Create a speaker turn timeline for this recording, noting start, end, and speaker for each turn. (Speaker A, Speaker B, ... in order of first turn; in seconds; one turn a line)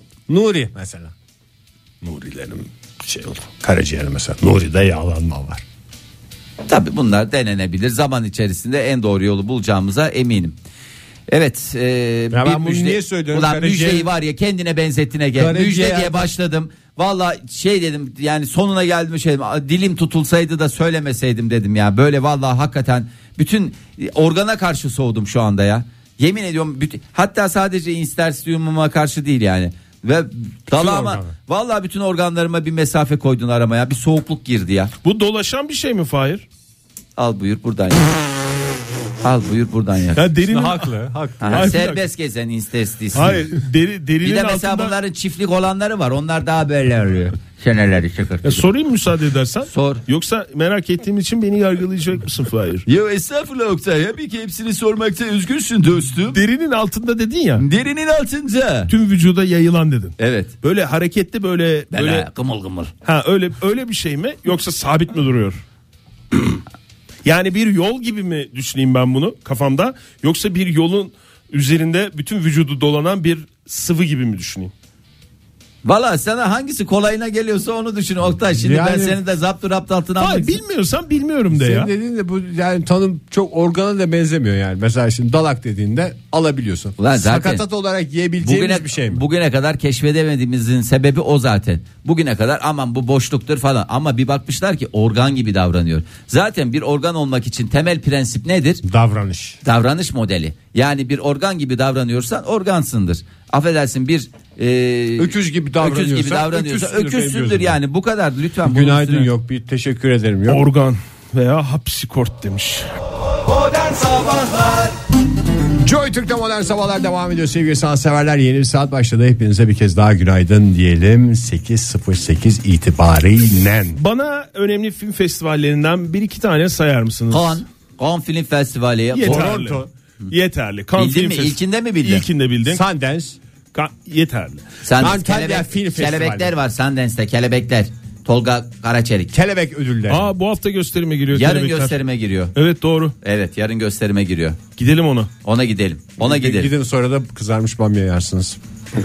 Speaker A: 0.3-1.1
Speaker A: 2.0-5.6
Speaker B: 6.7-10.6
Speaker B: 11.3-34.9
Speaker A: 12.3-14.1
Speaker A: 15.3-16.3
Speaker A: 30.7-31.3
Speaker C: 35.0-36.4
Speaker B: 37.2-38.1
Speaker B: 39.2-40.2
Speaker C: 40.1-40.9
Speaker A: 40.4-41.8
Speaker B: 41.4-43.5
Speaker C: 41.5-42.0
Speaker C: 43.1-44.9
Speaker B: 44.2-48.6
Speaker C: 48.4-52.8
Speaker B: 49.7-50.0
Speaker B: 52.9-56.4
Speaker C: 56.3-57.6
Speaker B: 57.6-58.9
Speaker C: 58.9-62.3
Speaker B: 60.2-60.5
Speaker B: 61.9-62.9
Speaker C: 63.0-65.6
Speaker C: 66.3-66.6
Speaker C: 67.2-74.7
Speaker B: 75.8-80.6
Speaker A: 78.6-79.2
Speaker C: 80.2-81.9
Speaker A: 81.5-89.2
Speaker B: 87.0-87.6
Speaker B: 88.4-98.8
Speaker A: 98.8-99.6
Speaker B: 99.6-109.3
Speaker A: 105.2-107.8
Speaker A: 108.6-110.6
Speaker C: 110.5-112.9
Speaker B: 113.6-114.9
Speaker A: 115.8-124.0
Speaker C: 124.0-127.6
Speaker B: 127.3-129.5
Speaker C: 129.1-132.8
Speaker A: 129.2-129.9
Speaker B: 130.9-132.2
Speaker A: 132.7-133.4
Speaker C: 133.7-134.7
Speaker B: 134.8-139.3
Speaker A: 135.0-136.5
Speaker A: 139.3-140.3
Speaker C: 140.1-142.0
Speaker B: 141.3-142.5
Speaker C: 142.5-143.1
Speaker B: 143.2-144.6
Speaker C: 144.8-145.3
Speaker B: 145.4-146.7
Speaker A: 146.2-148.6